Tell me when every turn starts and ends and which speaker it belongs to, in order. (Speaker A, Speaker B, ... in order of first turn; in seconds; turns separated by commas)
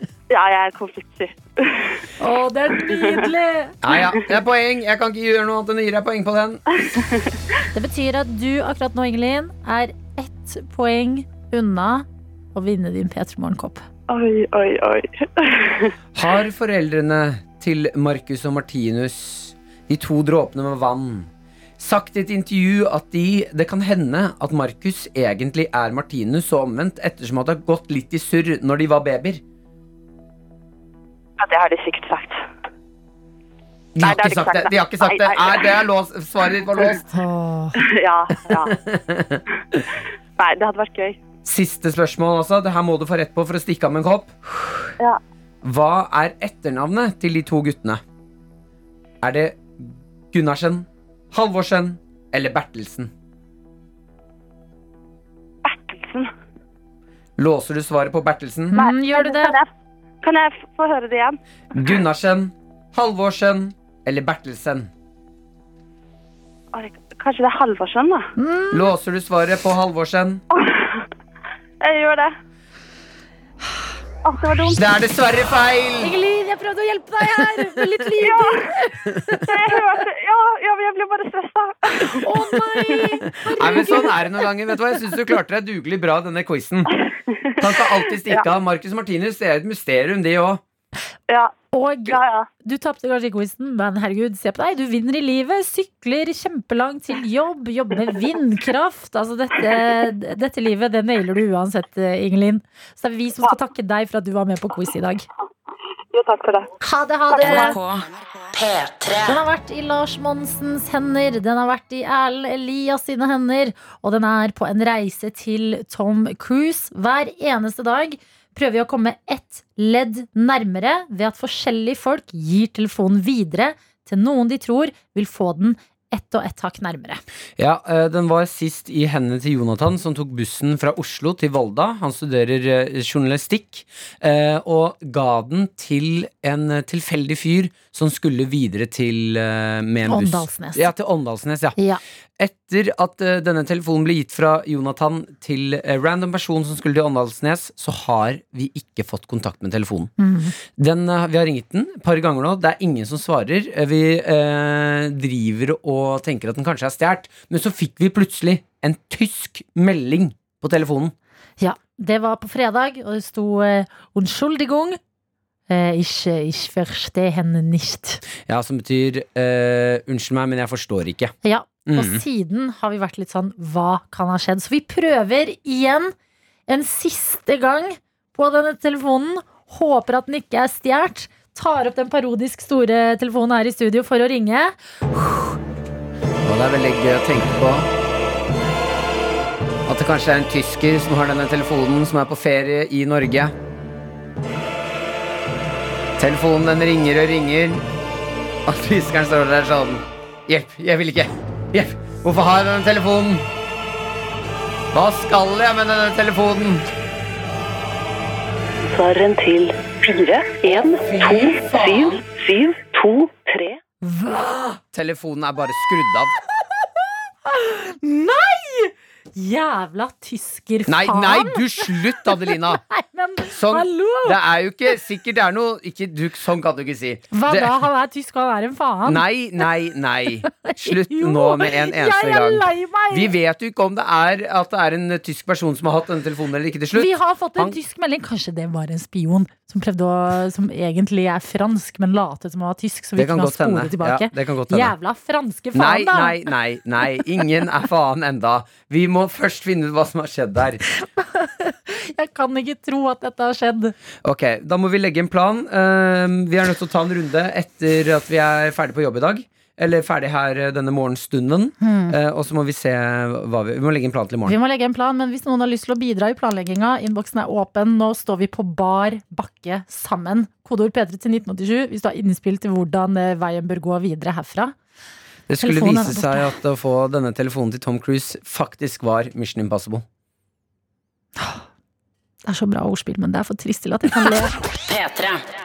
Speaker A: 0.3-2.0, Speaker B: 2.2-3.8, Speaker A: 2.9-3.2, Speaker C: 3.8-6.6, Speaker A: 7.0-7.2, Speaker B: 7.8-13.8, Speaker A: 14.1-15.9, Speaker C: 16.1-29.4, Speaker A: 31.4-32.4, Speaker C: 34.0-37.0, Speaker A: 34.0-35.8, Speaker B: 37.1-37.8, Speaker A: 37.8-38.8, Speaker C: 38.5-39.4, Speaker A: 40.4-41.2, Speaker C: 41.4-44.4, Speaker C: 45.6-48.0, Speaker C: 49.2-53.1, Speaker A: 55.6-56.3, Speaker C: 57.4-58.8, Speaker B: 58.7-59.6, Speaker A: 58.7-59.7, Speaker A: 60.2-61.4, Speaker C: 61.7-64.9, Speaker A: 66.7-68.3, Speaker B: 68.4-68.9, Speaker C: 68.7-70.4, Speaker A: 70.5-71.0, Speaker A: 71.8-72.3, Speaker A: 74.2-74.9, Speaker C: 74.7-76.1, Speaker B: 76.0-79.5, Speaker A: 78.2-78.8, Speaker A: 79.4-84.1, Speaker B: 82.2-84.2, Speaker C: 83.6-86.9, Speaker A: 87.3-88.5, Speaker C: 87.6-90.6, Speaker A: 91.3-91.5, Speaker B: 91.7-105.2, Speaker A: 92.1-92.5, Speaker A: 106.1-106.7, Speaker B: 106.8-107.8, Speaker A: 107.3-107.8, Speaker D: 107.4-109.4, Speaker B: 109.2-127.2, Speaker C: 127.6-141.8, Speaker B: 140.1-140.9, Speaker C: 142.4-150.1, Speaker B: 150.2-150.6, Speaker C: 150.6-161.2, Speaker B: 161.6-165.0, Speaker B: 165.7-168.2, Speaker C: 168.5-171.3, Speaker B: 171.4-176.1, Speaker C: 171.9-172.2, Speaker B: 176.7-185.6, Speaker C: 186.4-187.9, Speaker C: 189.9-193.5, Speaker C: 196.2-197.9, Speaker C: 198.7-203.5, Speaker C: 204.9-206.9, Speaker E: 208.9-213.8, Speaker B: 214.0-214.8, Speaker C: 214.9-216.4, Speaker B: 217.4-224.4, Speaker C: 220.9-222.8, Speaker C: 223.5-227.8, Speaker B: 227.3-229.2, Speaker C: 229.1-237.8, Speaker B: 230.6-233.3, Speaker B: 236.9-246.5, Speaker C: 243.2-244.9, Speaker C: 245.7-250.8, Speaker B: 250.9-253.9, Speaker C: 254.2-264.6, Speaker B: 261.8-262.1, Speaker B: 264.5-274.8, Speaker C: 275.5-280.1, Speaker B: 275.6-276.5, Speaker B: 281.4-281.6, Speaker B: 282.5-284.5, Speaker D: 284.9-285.4